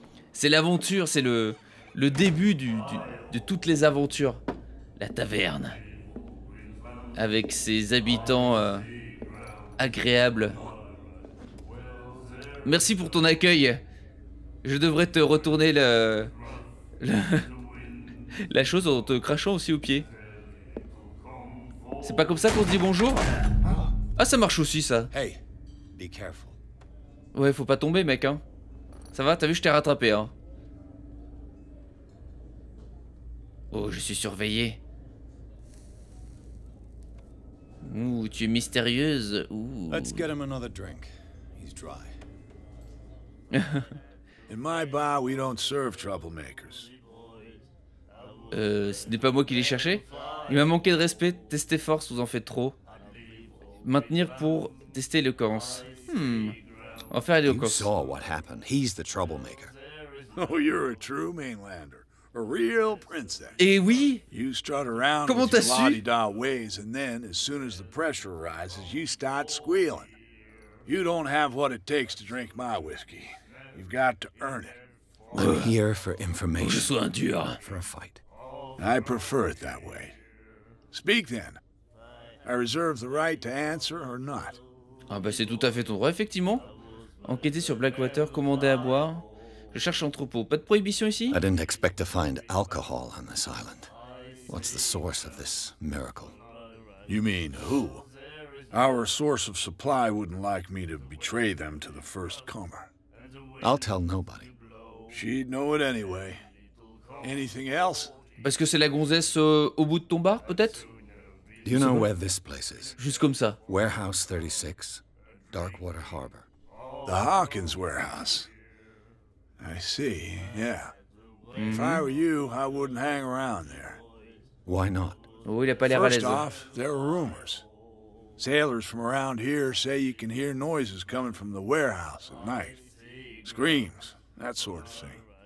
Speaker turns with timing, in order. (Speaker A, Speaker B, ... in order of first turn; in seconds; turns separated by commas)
Speaker A: 0.3-4.4, Speaker A: 5.0-5.8, Speaker A: 7.2-8.9, Speaker A: 9.8-10.7, Speaker A: 12.6-13.8, Speaker A: 14.6-16.3, Speaker A: 17.0-17.5, Speaker A: 18.4-20.1, Speaker A: 22.0-23.2, Speaker A: 24.2-25.1, Speaker B: 25.1-25.4, Speaker B: 25.9-26.6, Speaker A: 27.3-28.4, Speaker A: 29.1-30.3, Speaker A: 33.7-34.8, Speaker A: 37.8-40.2, Speaker B: 39.9-42.1, Speaker A: 43.5-43.9, Speaker C: 44.5-46.9, Speaker A: 48.5-52.8, Speaker A: 53.8-56.6, Speaker A: 57.1-57.9, Speaker B: 57.5-59.7, Speaker C: 60.3-63.6, Speaker A: 63.6-64.2, Speaker C: 64.3-70.2, Speaker A: 65.3-66.0, Speaker C: 70.8-74.8, Speaker A: 75.3-75.7, Speaker B: 75.3-77.0, Speaker A: 76.6-77.6, Speaker B: 77.6-78.2, Speaker C: 78.8-80.2, Speaker C: 80.9-81.6, Speaker C: 82.4-84.6, Speaker A: 85.1-86.7, Speaker A: 87.2-91.4, Speaker B: 91.3-93.9, Speaker B: 94.5-96.4, Speaker C: 97.1-98.1, Speaker C: 98.7-102.9, Speaker B: 103.6-104.5, Speaker C: 105.1-106.4, Speaker C: 107.2-108.2, Speaker A: 108.4-110.9, Speaker B: 111.6-113.0, Speaker A: 111.7-112.1, Speaker A: 113.0-113.6, Speaker B: 113.7-116.5, Speaker C: 117.1-118.5, Speaker C: 119.6-120.9, Speaker A: 121.6-122.1, Speaker C: 121.7-124.0, Speaker B: 124.7-125.3, Speaker A: 125.4-126.5, Speaker C: 125.9-127.7, Speaker C: 128.4-132.8, Speaker C: 133.4-135.2